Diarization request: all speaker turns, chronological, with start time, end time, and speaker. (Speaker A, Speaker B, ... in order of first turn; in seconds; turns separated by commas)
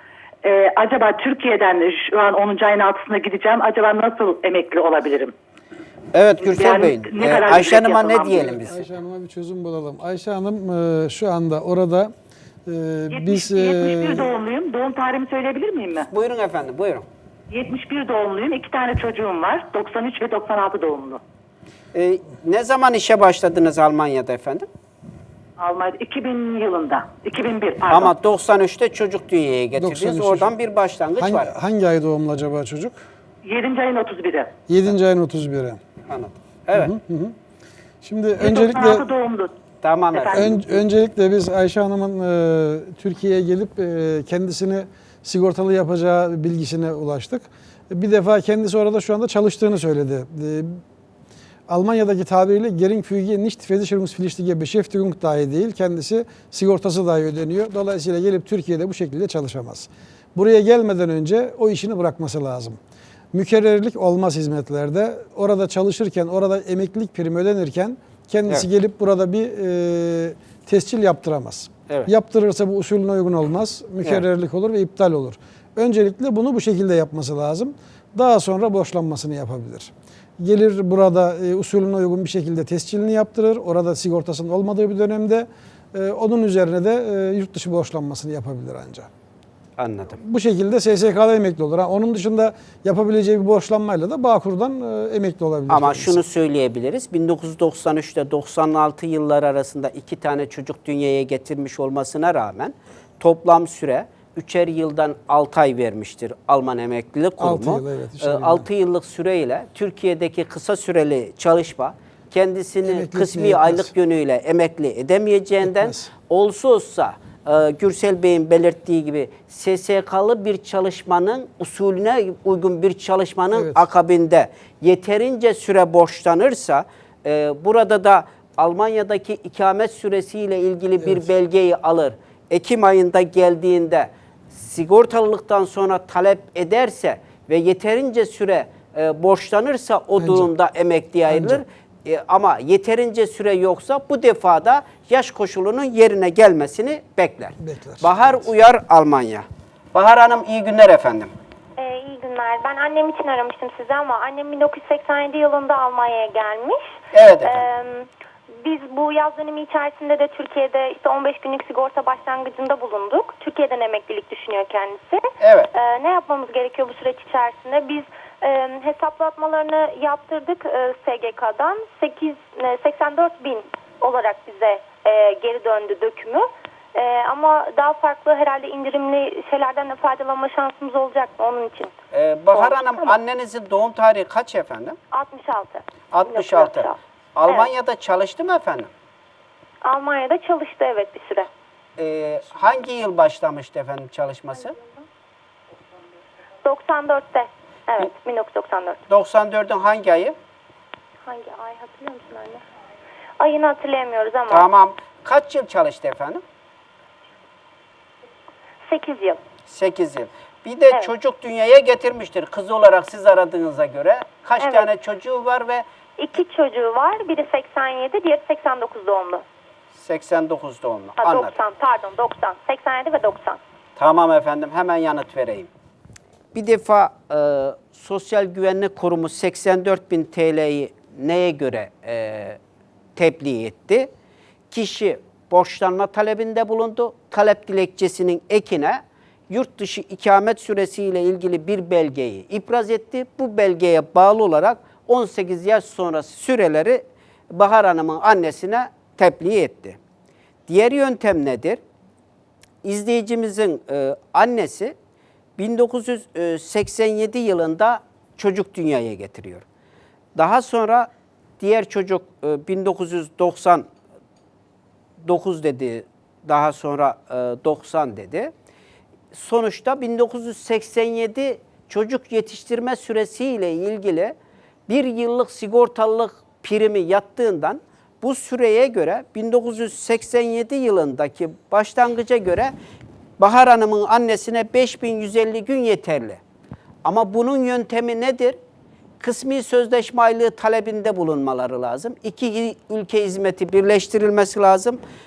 Speaker A: 0.4-5.3, Speaker B: 6.1-8.8, Speaker A: 6.4-8.4, Speaker C: 8.3-12.1, Speaker C: 12.7-14.3, Speaker A: 13.1-16.1, Speaker B: 16.0-17.0, Speaker A: 17.5-21.2, Speaker B: 21.9-24.6, Speaker A: 25.6-28.1, Speaker B: 27.9-31.5, Speaker C: 29.8-30.5, Speaker C: 31.2-33.0, Speaker A: 33.4-34.5, Speaker C: 34.7-35.8, Speaker B: 36.1-36.9, Speaker C: 36.7-37.3, Speaker C: 38.0-39.0, Speaker A: 38.4-39.5, Speaker B: 39.8-40.5, Speaker A: 40.1-40.7, Speaker C: 40.3-50.8, Speaker C: 51.7-62.8, Speaker C: 63.3-89.1, Speaker B: 89.8-90.2, Speaker C: 90.2-96.2, Speaker B: 95.7-151.3, Speaker C: 107.4-108.6, Speaker C: 112.8-113.9, Speaker C: 115.7-116.1, Speaker C: 123.5-123.8, Speaker C: 140.2-140.5, Speaker C: 141.3-141.6, Speaker C: 147.6-148.4, Speaker D: 151.8-158.1, Speaker B: 157.1-157.7, Speaker D: 158.6-181.9, Speaker B: 165.4-165.7, Speaker B: 182.1-185.0, Speaker D: 182.5-183.2, Speaker D: 185.1-187.0, Speaker B: 186.1-188.9, Speaker D: 189.8-191.5, Speaker B: 192.0-194.8, Speaker D: 194.7-195.0, Speaker D: 196.6-199.0, Speaker B: 199.1-200.3, Speaker D: 201.2-202.6, Speaker D: 203.4-204.7, Speaker B: 204.5-206.4, Speaker D: 208.8-209.4, Speaker B: 209.7-215.8, Speaker D: 214.6-214.9, Speaker D: 216.2-219.4, Speaker B: 219.9-221.6, Speaker D: 221.2-223.6, Speaker B: 224.0-225.7, Speaker B: 226.5-232.6, Speaker B: 233.2-234.1, Speaker B: 234.7-250.0, Speaker B: 250.7-251.8, Speaker B: 252.8-254.9, Speaker B: 255.6-259.6, Speaker B: 260.3-261.1, Speaker B: 261.6-263.9, Speaker B: 265.2-268.5, Speaker B: 269.3-274.3, Speaker B: 274.9-282.7, Speaker B: 283.4-286.4, Speaker B: 287.0-288.6, Speaker B: 289.2-295.0